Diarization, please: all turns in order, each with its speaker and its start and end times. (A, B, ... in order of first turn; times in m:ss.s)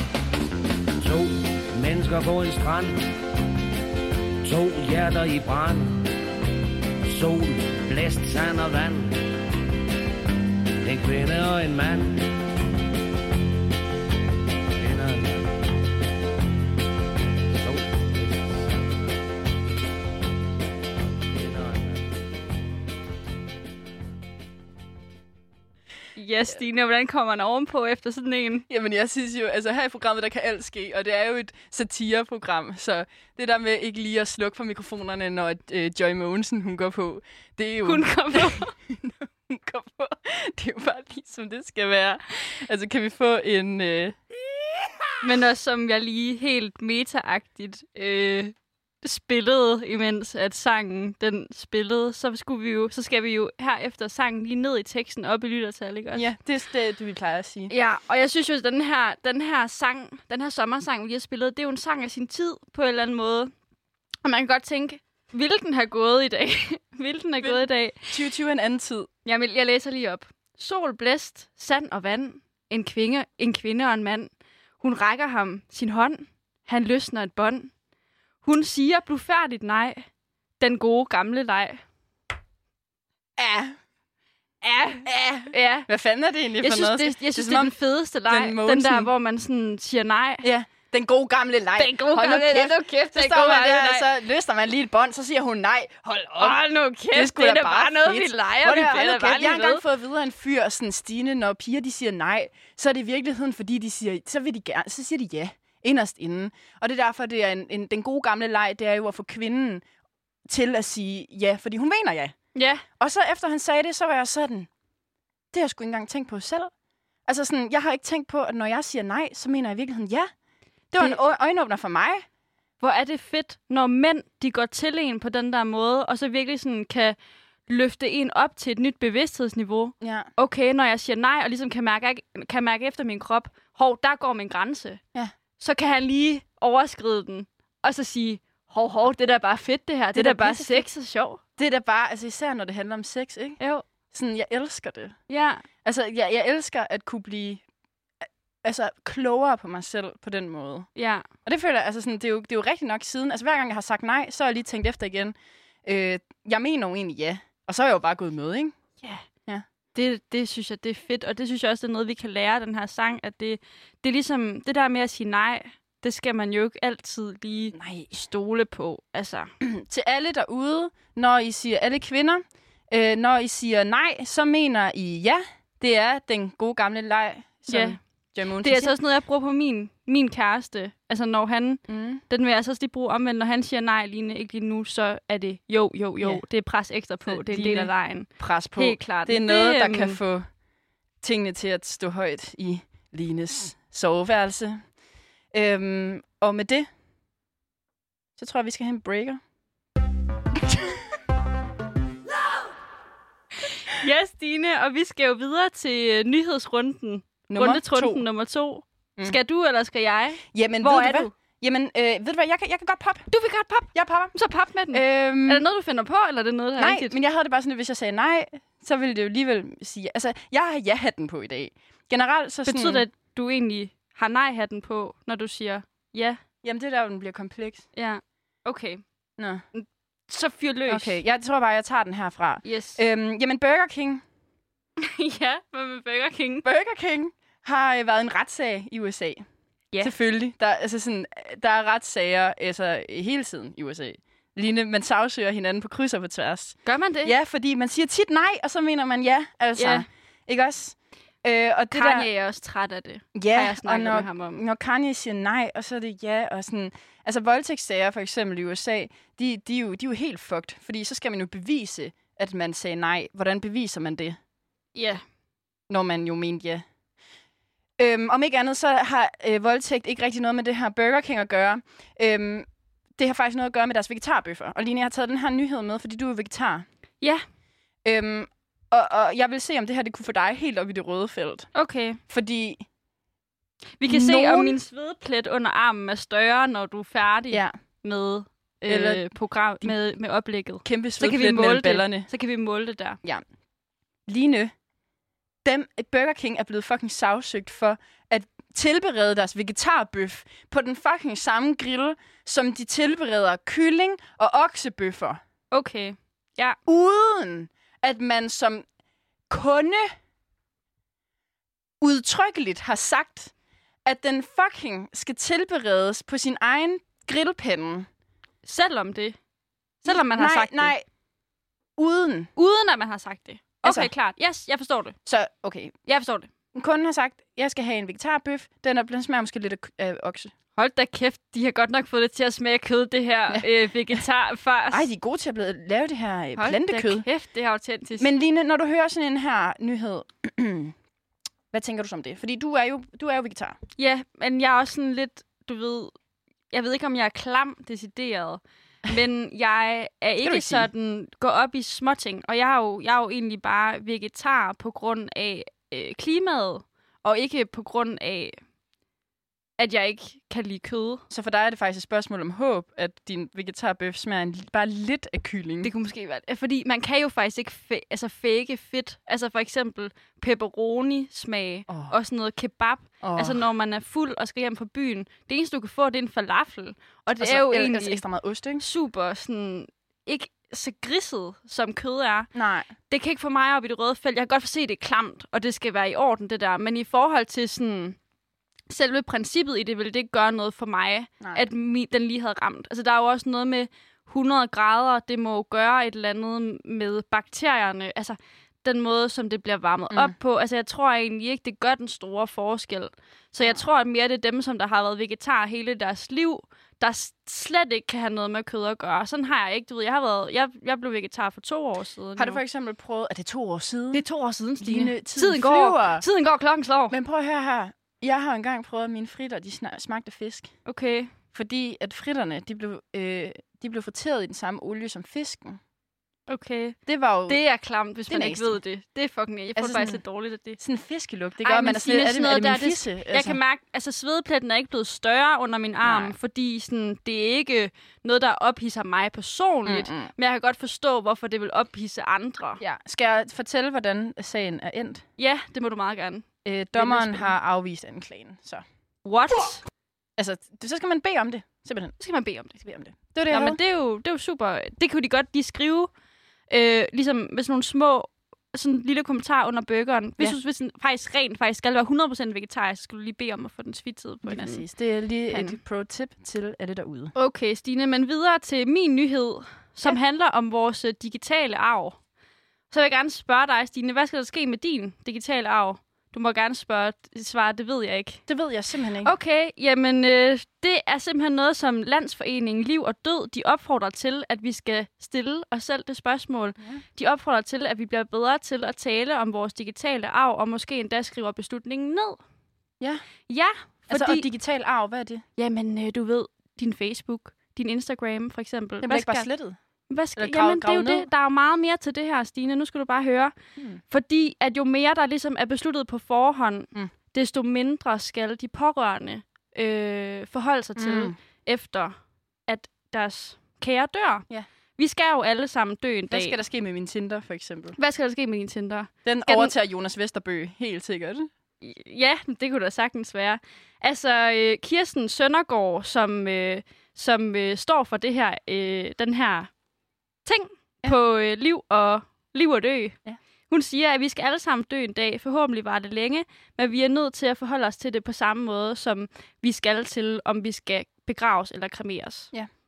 0:01.0-0:03.1 A
0:04.4-0:06.1 A
0:07.0-0:09.2 A
0:10.8-0:12.3 A
0:14.8-0:15.6 A
0:17.5-0:19.1 A
0:21.3-0:22.0 A
0:26.2-0:28.7 B
0:28.7-0:44.2 C
0:37.8-0:38.7 B
0:45.2-0:56.3 B
0:56.2-0:57.7 C
0:57.7-1:03.5 B
1:04.2-1:08.1 B
1:07.4-1:09.1 C
1:09.2-1:17.7 B
1:18.4-1:20.1 B
1:20.6-1:21.8 B
1:23.4-1:23.8 C
1:24.6-1:25.9 B
1:25.0-1:27.8 C
1:26.6-1:30.5 B
1:28.3-1:29.1 C
1:30.4-1:36.6 C
1:31.8-1:34.1 B
1:36.4-1:39.8 B
1:37.1-1:49.8 C
1:50.5-1:52.4 C
1:52.6-1:52.8 B
1:53.0-1:54.7 C
1:55.5-1:56.7 C
1:57.3-2:00.3 C
2:00.9-2:02.2 C
2:02.8-2:07.2 B
2:07.7-2:15.0 B
2:10.0-2:10.3 C
2:15.6-2:21.4 B
2:20.2-2:20.9 C
2:21.6-2:25.2 C
2:23.6-2:23.9 B
2:25.3-2:25.6 B
2:25.8-2:27.6 C
2:28.6-2:30.9 C
2:31.0-2:31.2 B
2:31.5-2:38.8 C
2:39.9-2:49.5 B
2:47.7-2:48.2 C
2:49.6-2:58.9 C
2:57.7-2:58.0 B
2:58.6-3:10.2 B
3:01.9-3:02.2 C
3:07.3-3:10.5 C
3:11.2-3:14.8 C
3:15.5-3:16.9 C
3:18.4-3:19.4 C
3:20.7-3:21.0 C
3:23.7-3:31.3 B
3:27.5-3:28.2 C
3:30.5-3:33.3 C
3:33.3-3:37.2 B
3:33.9-3:34.4 C
3:34.9-3:35.6 C
3:36.8-3:43.0 C
3:42.7-3:46.4 B
3:46.6-3:47.9 C
3:48.0-3:49.0 B
3:49.4-3:49.6 C
3:49.7-3:51.2 B
3:50.9-3:54.2 C
3:52.6-3:53.0 B
3:55.0-3:56.7 B
3:56.6-3:59.4 C
4:00.0-4:12.3 C
4:06.8-4:07.3 B
4:09.8-4:10.1 B
4:11.9-4:14.6 B
4:13.4-4:24.4 C
4:25.0-4:25.2 B
4:25.9-4:26.8 C
4:28.0-4:32.7 C
4:33.2-4:36.9 C
4:38.0-4:41.7 C
4:41.8-4:42.2 B
4:42.3-4:42.8 C
4:44.0-4:53.2 B
4:44.1-4:44.8 C
4:48.9-4:49.3 C
4:50.8-4:52.3 C
4:54.3-4:54.7 C
4:55.6-5:05.4 C
5:05.7-5:06.8 B
5:06.9-5:08.8 C
5:09.5-5:10.1 C
5:12.0-5:13.5 C
5:14.1-5:18.1 C
5:18.6-5:19.4 B
5:20.0-5:20.9 B
5:20.1-5:21.0 C
5:22.0-5:22.5 C
5:22.6-5:25.2 B
5:23.8-5:24.1 C
5:25.3-5:26.0 C
5:26.1-5:26.5 B
5:26.8-5:30.5 C
5:30.8-5:35.1 B
5:34.9-5:37.2 C
5:36.6-5:38.3 B
5:38.2-5:40.9 C
5:41.7-5:43.8 C
5:44.0-5:46.1 B
5:46.7-5:58.6 B
5:50.4-5:50.9 C
5:59.8-6:01.2 B
6:01.3-6:05.9 C
6:05.8-6:18.2 B
6:11.9-6:12.2 C
6:13.2-6:13.6 C
6:17.4-6:18.9 C
6:18.8-6:22.5 B
6:22.6-6:22.9 C
6:23.1-6:28.2 B
6:28.9-6:52.6 B
6:52.4-6:54.2 C
6:54.1-6:57.2 B
6:54.8-6:56.2 C
6:57.1-7:00.7 C
7:00.9-7:01.3 B
7:01.5-7:05.8 C
7:06.5-7:07.0 B
7:07.1-7:07.6 C
7:07.5-7:10.8 B
7:08.3-7:08.8 C
7:09.8-7:10.2 C
7:10.8-7:13.6 C
7:11.6-7:22.8 B
7:16.0-7:16.3 C
7:19.9-7:20.3 C
7:22.8-7:25.2 C
7:25.4-7:26.4 B
7:26.6-7:28.8 C
7:27.0-7:27.5 B
7:29.2-7:29.8 B
7:30.4-7:32.2 C
7:32.2-7:32.8 B
7:32.8-7:33.8 C
7:33.5-7:36.1 B
7:36.7-7:44.8 B
7:44.4-7:47.3 C
7:45.5-7:45.8 B
7:47.4-7:52.2 B
7:52.9-7:58.4 B
7:58.5-7:59.3 C
7:59.2-8:12.4 B
8:13.5-8:14.5 B
8:14.1-8:15.4 C
8:15.6-8:19.5 B
8:19.0-8:19.8 C
8:20.1-8:23.5 B
8:20.4-8:21.3 C
8:24.1-8:32.2 B
8:31.0-8:31.4 C
8:32.7-8:34.5 B
8:35.0-8:36.6 B
8:36.3-8:38.0 C
8:38.0-8:39.7 B
8:39.2-8:41.5 C
8:41.8-8:49.7 B
8:50.4-8:53.2 B
8:53.7-9:02.5 B